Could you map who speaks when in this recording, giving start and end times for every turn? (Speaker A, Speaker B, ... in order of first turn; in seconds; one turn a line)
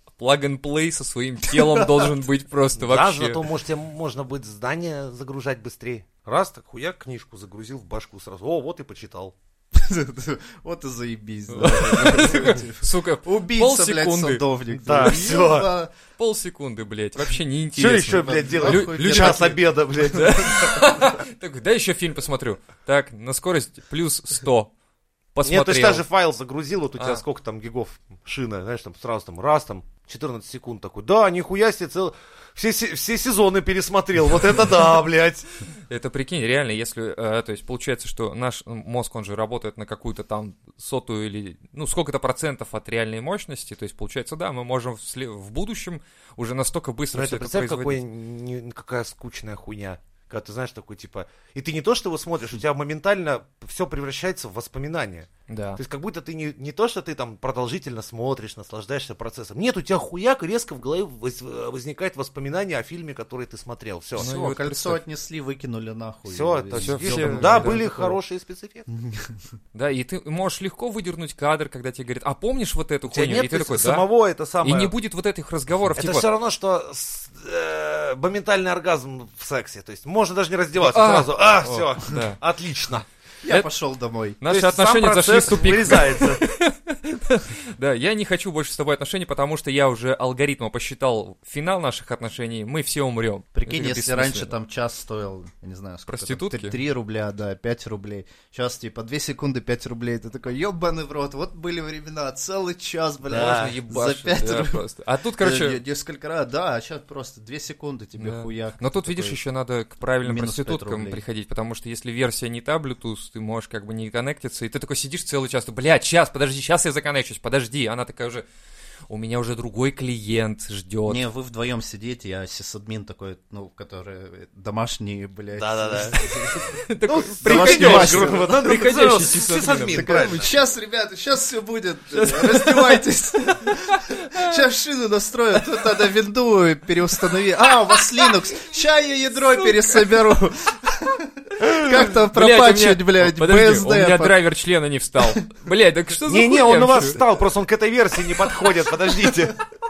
Speaker A: 0.2-3.4
Speaker B: 1.6-2.1
Speaker C: 2.8-9.3
Speaker B: 9.7-15.9
Speaker A: 11.5-15.0
Speaker C: 14.8-15.7
Speaker A: 16.2-19.6
Speaker C: 17.7-20.7
Speaker B: 18.2-19.6
Speaker A: 20.1-24.7
Speaker A: 25.3-26.0
Speaker C: 25.4-35.5
Speaker A: 27.0-27.2
Speaker A: 35.9-48.0
Speaker C: 47.1-64.3
Speaker A: 55.5-55.8
Speaker B: 64.2-68.2
Speaker A: 64.2-65.0
Speaker C: 66.3-68.9
Speaker A: 66.8-67.9
Speaker B: 68.9-69.4
Speaker A: 69.7-74.0
Speaker C: 73.1-74.9
Speaker A: 74.6-76.3
Speaker C: 76.0-83.0
Speaker A: 80.8-82.4
Speaker B: 83.4-84.4
Speaker A: 84.4-94.5
Speaker C: 84.5-86.4
Speaker B: 93.5-104.8
Speaker A: 96.1-96.8
Speaker A: 103.3-105.8
Speaker C: 103.3-103.8
Speaker B: 105.4-109.4
Speaker A: 108.2-118.5
Speaker B: 110.2-111.2
Speaker A: 119.1-121.2
Speaker B: 121.1-126.7
Speaker C: 125.5-126.2
Speaker A: 126.6-130.4
Speaker C: 127.1-130.5
Speaker B: 127.4-128.6
Speaker B: 130.0-144.4
Speaker A: 132.1-133.0
Speaker A: 133.7-134.6
Speaker A: 137.9-138.3
Speaker A: 139.4-140.1
Speaker A: 141.7-147.2
Speaker C: 146.3-149.6